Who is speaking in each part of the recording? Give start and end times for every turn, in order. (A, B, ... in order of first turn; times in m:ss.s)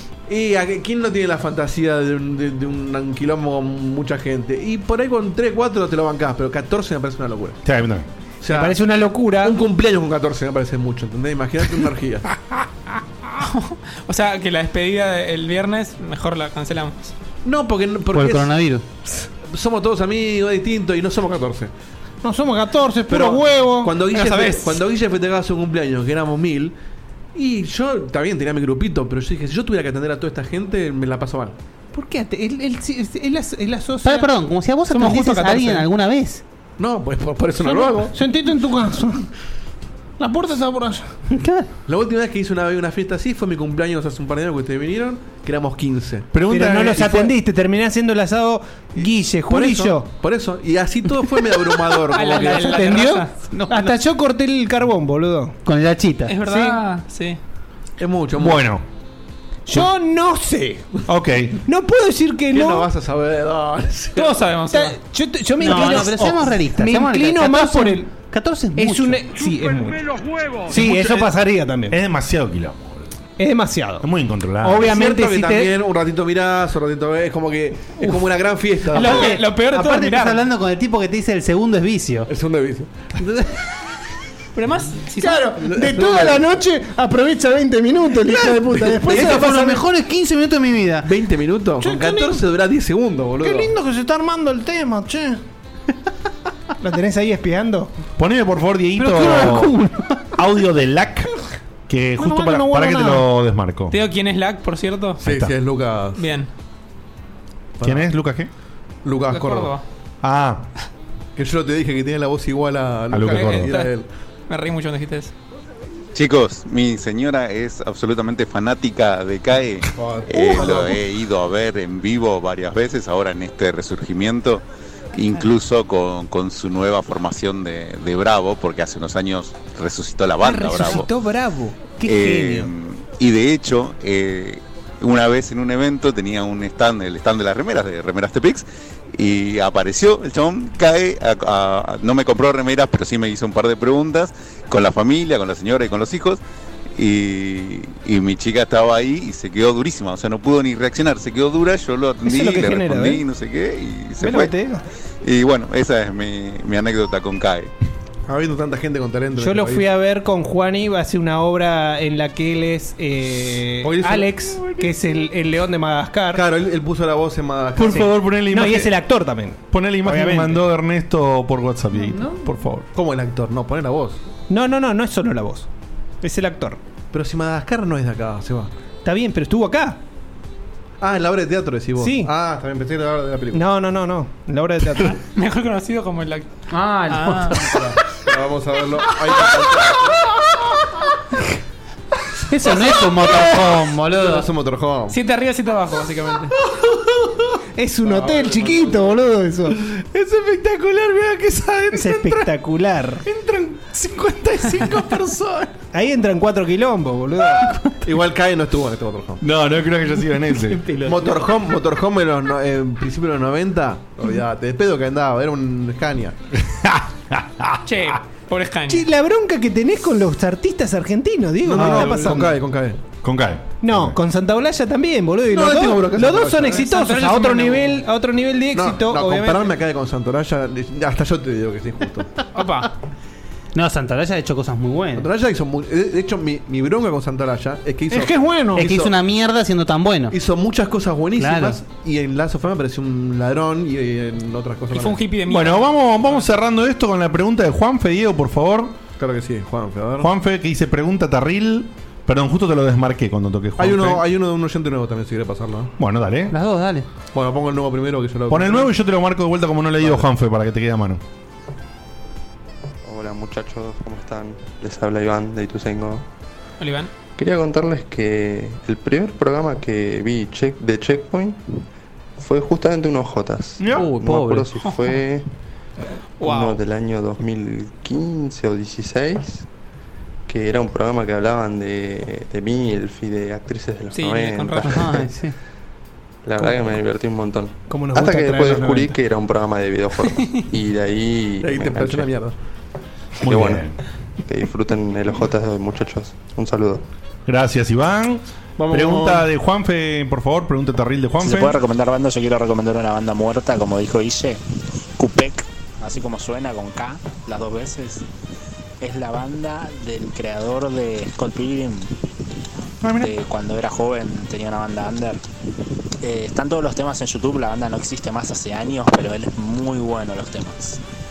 0:00.3-0:07.6 A
0:07.6-0:08.1 B
0:08.4-0:08.8 A
0:08.5-0:09.6 C
0:09.4-0:12.3 A
0:13.4-0:17.1 D
0:17.4-0:18.5 A
0:18.1-0:18.8 E
0:19.4-0:21.7 A
0:22.2-0:24.0 C
0:23.1-0:26.8 A
0:24.1-0:24.8 D
0:27.4-0:31.6 A
0:31.9-0:34.3 C
0:34.0-0:36.4 E
0:34.9-0:35.9 D
0:36.8-0:38.2 A
0:37.6-0:39.3 C
0:40.2-0:41.1 C
0:41.3-0:41.7 E
0:41.9-0:46.3 A
0:46.3-0:47.3 B
0:46.5-0:50.1 C
0:49.0-0:53.0 A
0:52.1-0:53.5 D
0:52.3-0:55.6 C
0:53.6-0:53.9 E
0:55.6-0:56.4 E
0:56.3-0:57.4 D
0:56.4-0:56.8 C
0:58.0-0:58.6 A
0:58.4-0:58.8 B
0:59.7-1:00.8 C
1:01.1-1:01.6 B
1:01.7-1:02.9 C
1:02.5-1:04.5 A
1:04.2-1:05.0 D
1:04.7-1:08.1 C
1:05.6-1:09.2 E
1:08.8-1:10.1 C
1:10.7-1:11.4 B
1:10.7-1:12.0 C
1:11.9-1:13.2 B
1:13.4-1:14.1 C
1:14.0-1:14.9 B
1:14.6-1:15.7 C
1:14.8-1:19.4 A
1:18.9-1:20.4 D
1:19.0-1:22.3 E
1:22.3-1:23.4 A
1:24.6-1:25.6 D
1:25.2-1:29.8 C
1:25.6-1:26.5 A
1:28.2-1:29.7 A
1:29.1-1:31.1 E
1:31.0-1:33.7 A
1:31.8-1:32.4 C
1:33.4-1:35.4 C
1:36.8-1:37.9 C
1:38.2-1:39.8 B
1:39.0-1:39.9 C
1:40.4-1:44.0 B
1:42.2-1:43.2 C
1:43.9-1:45.2 D
1:45.2-1:46.2 A
1:45.2-1:45.5 B
1:46.2-1:46.5 D
1:47.8-1:48.1 A
1:47.8-1:48.5 B
1:49.0-1:49.7 A
1:49.3-1:49.8 D
1:50.2-1:50.6 B
1:51.4-1:54.1 A
1:53.1-1:53.7 B
1:53.3-1:53.9 D
1:54.5-1:55.3 D
1:56.1-2:04.6 F
2:00.0-2:01.0 A
2:05.1-2:11.1 F
2:10.4-2:12.7 C
2:12.0-2:26.4 F
2:27.0-2:34.5 F
2:32.2-2:33.2 C
2:34.2-2:34.8 C
2:35.2-2:37.7 F
2:38.3-2:39.8 A
2:39.4-2:46.4 C
2:43.8-2:44.8 A
2:46.3-2:48.1 A
2:47.8-2:49.0 B
2:47.9-2:50.6 C
2:49.7-2:52.9 B
2:52.9-2:54.2 A
2:54.5-2:55.7 C
2:56.2-2:56.8 C
2:57.1-2:58.7 A
2:59.0-3:00.0 C
3:01.0-3:03.6 A
3:02.0-3:02.3 C
3:03.5-3:05.2 C
3:05.0-3:07.8 D
3:06.7-3:08.0 E
3:08.2-3:10.2 A
3:12.5-3:14.5 E
3:14.1-3:15.2 A
3:15.1-3:16.6 D
3:17.8-3:19.8 C
3:18.0-3:19.0 A
3:19.9-3:22.5 B
3:21.9-3:23.2 C
3:23.2-3:25.8 B
3:25.9-3:28.0 C
3:28.0-3:29.4 A
3:29.4-3:30.9 B
3:31.0-3:31.3 E
3:31.0-3:36.4 A
3:36.6-3:38.1 B
3:37.8-3:39.1 D
3:38.9-3:42.6 C
3:41.6-3:43.0 A
3:41.7-3:42.5 B
3:43.2-3:44.2 B
3:43.8-3:49.7 C
3:45.5-3:46.8 A
3:46.7-3:48.0 D
3:48.7-3:52.3 A
3:52.5-3:52.9 D
3:53.8-3:55.3 E
3:55.2-3:59.1 A
3:58.1-3:59.0 C
3:58.8-4:00.4 E
4:00.3-4:05.2 A
4:01.4-4:01.8 E
4:04.9-4:06.5 D
4:05.5-4:09.0 B
4:09.2-4:10.3 A
4:10.2-4:14.2 B
4:13.8-4:15.9 A
4:16.0-4:16.5 B
4:16.5-4:17.1 E
4:17.3-4:18.9 A
4:18.5-4:21.2 B
4:23.0-4:26.2 G
4:26.8-4:27.1 D
4:27.4-4:31.6 G
4:32.4-4:35.5 G
4:33.8-4:34.1 B
4:34.0-4:34.6 E
4:34.8-4:35.2 D
4:36.4-4:36.8 D
4:36.4-4:39.7 G
4:40.5-4:45.2 G
4:44.1-4:45.3 D
4:44.8-4:45.6 E
4:46.4-4:52.3 G
4:47.9-4:49.2 C
4:51.6-4:52.6 A
4:53.4-4:53.9 G
4:53.4-4:54.0 B
4:54.4-4:57.0 G
4:57.5-5:01.8 B
4:58.8-4:59.4 A
5:01.4-5:04.6 H
5:05.2-5:08.2 H
5:09.0-5:12.1 H
5:13.0-5:13.3 B
5:13.1-5:15.4 H
5:16.2-5:21.0 H